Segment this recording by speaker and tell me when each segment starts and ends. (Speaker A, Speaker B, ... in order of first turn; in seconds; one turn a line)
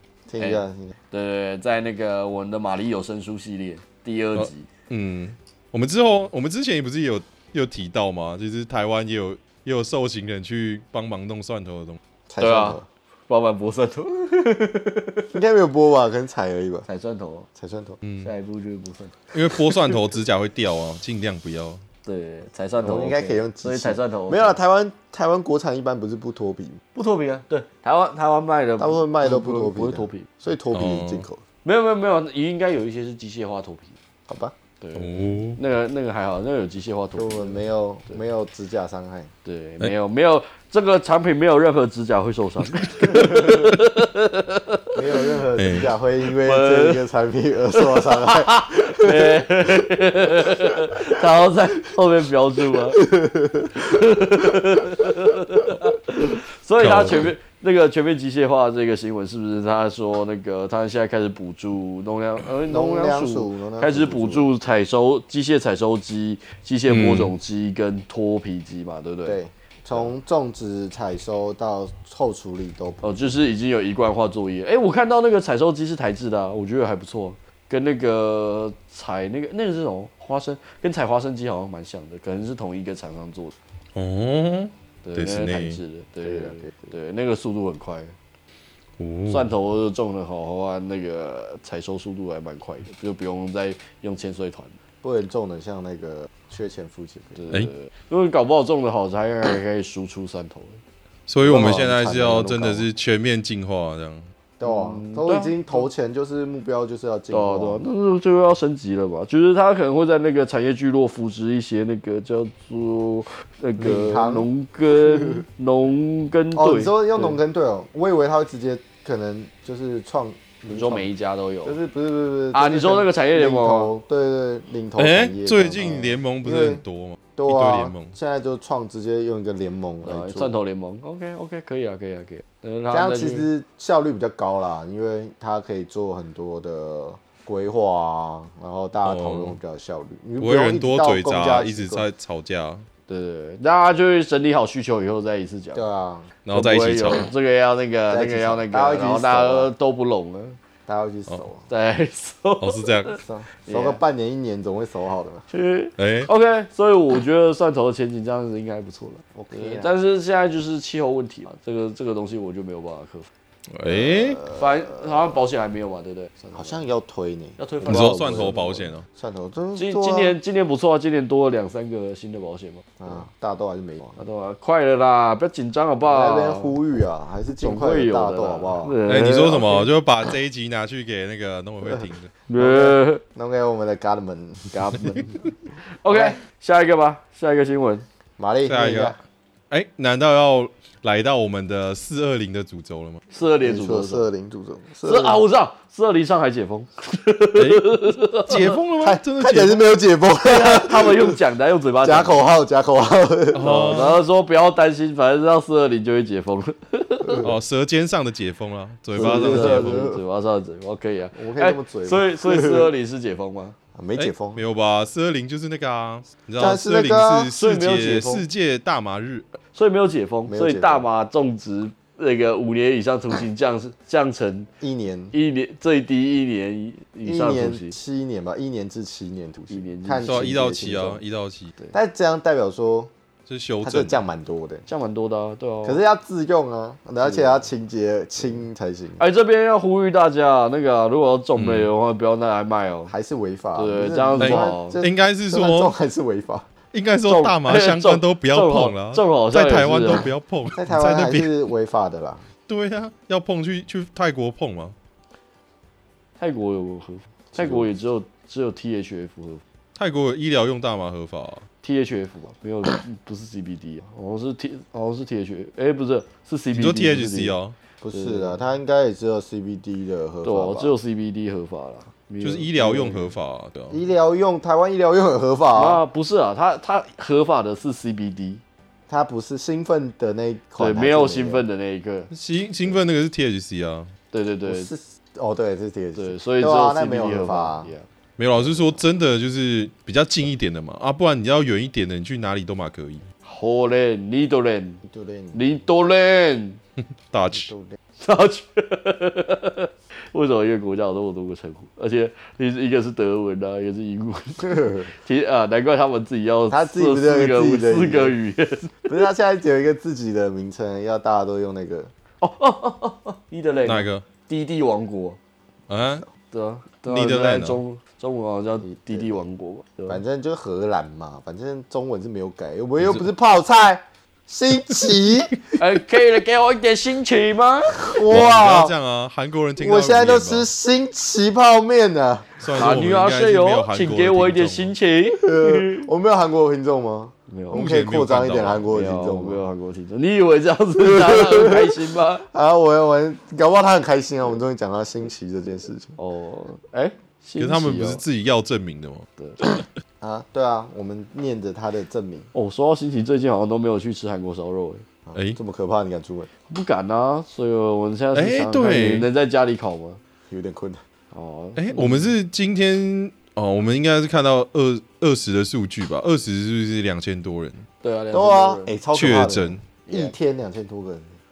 Speaker A: 0.3-1.0
Speaker B: 0.4-4.7
Speaker C: 4.4-12.0
Speaker A: 12.3-12.9
Speaker B: 12.4-15.3
Speaker A: 15.3-16.9
Speaker B: 16.9-17.5
Speaker A: 17.6-18.0
Speaker C: 18.0-18.3
Speaker B: 18.2-19.2
Speaker C: 19.3-21.8
Speaker B: 22.1-24.6
Speaker A: 22.8-26.8
Speaker B: 26.9-30.3
Speaker A: 28.8-31.4
Speaker C: 30.7-31.2
Speaker B: 31.6-34.0
Speaker A: 34.3-34.5
Speaker B: 34.8-37.6
Speaker C: 35.0-35.6
Speaker A: 37.2-39.3
Speaker B: 39.5-45.0
Speaker A: 45.0-49.4
Speaker C: 45.6-45.9
Speaker B: 46.2-47.0
Speaker B: 47.7-53.1
Speaker A: 53.0-53.8
Speaker B: 53.7-69.4
Speaker C: 56.8-57.3
Speaker A: 62.7-64.5
Speaker C: 66.9-67.3
Speaker A: 69.2-73.2
Speaker B: 73.0-83.5
Speaker C: 84.0-85.8
Speaker B: 85.0-88.2
Speaker A: 86.2-86.7
Speaker C: 89.0-89.5
Speaker B: 89.3-94.8
Speaker A: 95.0-97.4
Speaker B: 97.4-100.8
Speaker C: 101.3-104.2
Speaker A: 101.4-102.9
Speaker A: 104.6-107.9
Speaker B: 104.6-105.8
Speaker B: 107.3-117.4
Speaker A: 113.8-115.4
Speaker A: 116.5-121.1
Speaker B: 120.7-121.8
Speaker A: 121.7-126.8
Speaker B: 122.5-123.9
Speaker C: 125.0-128.2
Speaker A: 127.4-130.5
Speaker B: 130.0-133.5
Speaker A: 132.9-142.1
Speaker C: 139.1-139.6
Speaker C: 140.4-142.8
Speaker B: 143.1-145.8
Speaker A: 145.7-146.3
Speaker C: 146.5-147.3
Speaker B: 146.5-150.6
Speaker A: 148.1-149.7
Speaker A: 150.9-151.7
Speaker B: 151.7-154.0
Speaker C: 152.6-153.2
Speaker A: 153.2-155.5
Speaker B: 155.5-163.3
Speaker C: 156.0-156.3
Speaker A: 159.3-159.9
Speaker C: 163.7-164.4
Speaker A: 163.9-165.3
Speaker B: 164.5-166.8
Speaker A: 166.5-170.4
Speaker B: 167.6-168.5
Speaker C: 167.8-169.0
Speaker B: 169.8-172.9
Speaker A: 173.0-174.2
Speaker B: 174.2-176.8
Speaker A: 176.1-179.0
Speaker B: 177.6-179.9
Speaker C: 179.1-182.3
Speaker A: 181.8-185.4
Speaker B: 182.5-183.2
Speaker B: 184.9-185.2
Speaker B: 185.9-188.1
Speaker A: 186.1-186.4
Speaker A: 188.4-189.2
Speaker C: 188.7-189.2
Speaker C: 189.7-193.2
Speaker B: 193.3-194.3
Speaker A: 193.6-195.4
Speaker B: 195.0-198.8
Speaker C: 197.6-200.0
Speaker A: 199.0-201.4
Speaker B: 200.4-202.4
Speaker A: 202.0-203.8
Speaker C: 203.5-204.2
Speaker B: 203.6-207.5
Speaker C: 207.3-210.1
Speaker A: 209.1-210.2
Speaker B: 209.2-213.8
Speaker A: 211.3-212.9
Speaker A: 213.9-214.6
Speaker C: 214.2-219.6
Speaker A: 216.6-217.5
Speaker B: 217.5-218.4
Speaker B: 219.7-224.7
Speaker A: 220.5-221.1
Speaker A: 224.8-225.3
Speaker B: 225.3-227.9
Speaker A: 227.2-231.2
Speaker B: 229.7-230.6
Speaker C: 230.3-231.7
Speaker A: 231.9-233.1
Speaker C: 233.5-234.2
Speaker A: 233.8-234.8
Speaker B: 234.9-236.0
Speaker A: 235.8-239.2
Speaker B: 237.2-237.6
Speaker B: 239.2-243.1
Speaker C: 241.6-241.9
Speaker A: 243.1-246.7
Speaker B: 243.8-245.0
Speaker C: 244.4-245.9
Speaker C: 246.9-251.5
Speaker B: 247.2-250.3
Speaker A: 250.8-252.4
Speaker C: 252.7-254.9
Speaker B: 256.4-259.6
Speaker A: 257.5-257.9
Speaker C: 260.0-261.6
Speaker B: 261.8-267.6
Speaker C: 266.7-267.8
Speaker A: 268.0-270.9
Speaker B: 268.1-268.6
Speaker B: 270.4-273.3
Speaker C: 272.4-274.0
Speaker A: 273.9-276.0
Speaker B: 275.8-278.6
Speaker A: 279.1-281.6
Speaker B: 280.8-282.3
Speaker C: 282.3-284.1
Speaker B: 284.3-284.9
Speaker A: 284.7-287.9
Speaker B: 286.2-288.1
Speaker C: 288.4-293.2
Speaker B: 293.5-295.0
Speaker A: 295.0-295.6
Speaker B: 295.5-296.8
Speaker C: 297.3-297.7
Speaker A: 297.6-298.0
Speaker B: 298.2-309.0
Speaker A: 304.6-305.1
Speaker A: 306.7-308.4
Speaker A: 309.1-312.1
Speaker B: 312.4-315.4
Speaker C: 313.9-314.2
Speaker C: 315.9-316.3
Speaker B: 316.5-320.2
Speaker C: 317.1-317.8
Speaker A: 318.8-319.4
Speaker A: 320.1-325.6
Speaker B: 325.8-328.1
Speaker A: 327.9-328.9
Speaker C: 328.3-330.7
Speaker A: 329.8-332.6
Speaker C: 332.6-334.9
Speaker B: 332.8-336.1
Speaker A: 335.4-339.6
Speaker B: 337.5-337.9
Speaker C: 337.7-338.9
Speaker B: 338.9-342.4
Speaker A: 341.0-342.0
Speaker A: 342.5-346.2
Speaker B: 346.2-348.2
Speaker C: 347.6-349.8
Speaker A: 350.2-352.5
Speaker B: 352.5-355.1
Speaker A: 355.3-356.5
Speaker B: 356.7-360.2
Speaker C: 358.4-359.3
Speaker A: 360.5-361.0
Speaker B: 361.3-362.3
Speaker C: 361.8-367.9
Speaker B: 368.0-368.9
Speaker A: 368.3-371.4
Speaker C: 369.1-369.8
Speaker B: 370.1-370.3